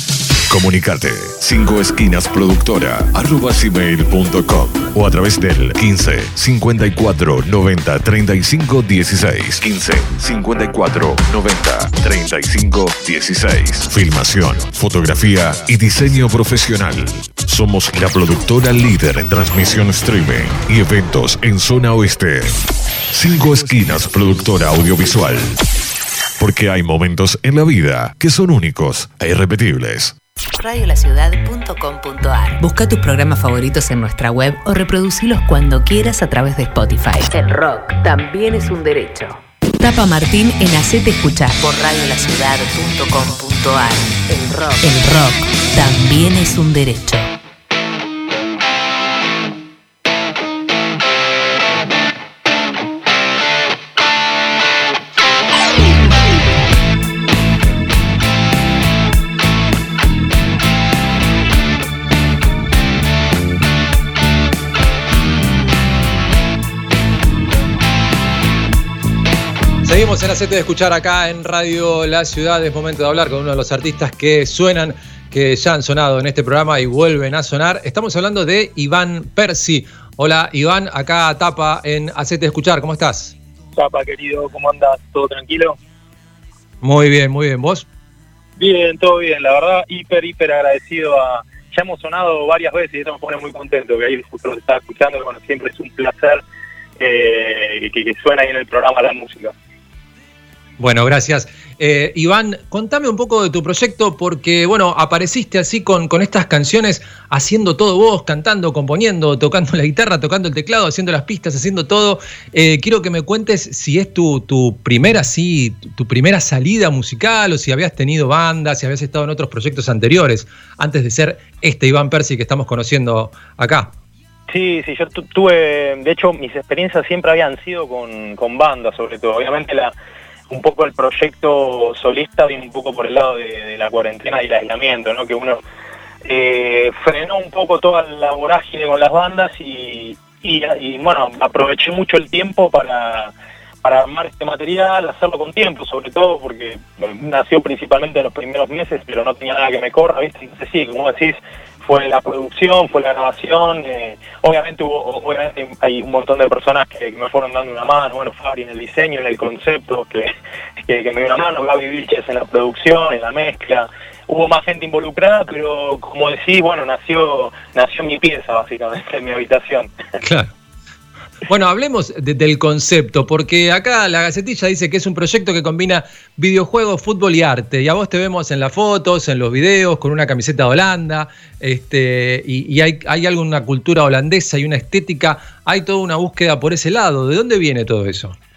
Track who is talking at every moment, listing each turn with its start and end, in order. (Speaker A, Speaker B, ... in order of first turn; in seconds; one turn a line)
Speaker A: 0.5-25.6
Speaker A: 26.4-30.2
Speaker B: 30.5-47.3
Speaker C: 69.8-83.3
Speaker D: 83.8-85.8
Speaker C: 86.8-87.9
Speaker D: 88.6-96.4
Speaker D: 97.0-99.5
Speaker C: 100.8-123.9
Speaker D: 124.5-129.9
Speaker D: 130.5-135.6
Speaker D: 136.2-160.3
Speaker D: 160.8-169.9
Speaker C: 170.2-170.5
Speaker C: 171.5-188.4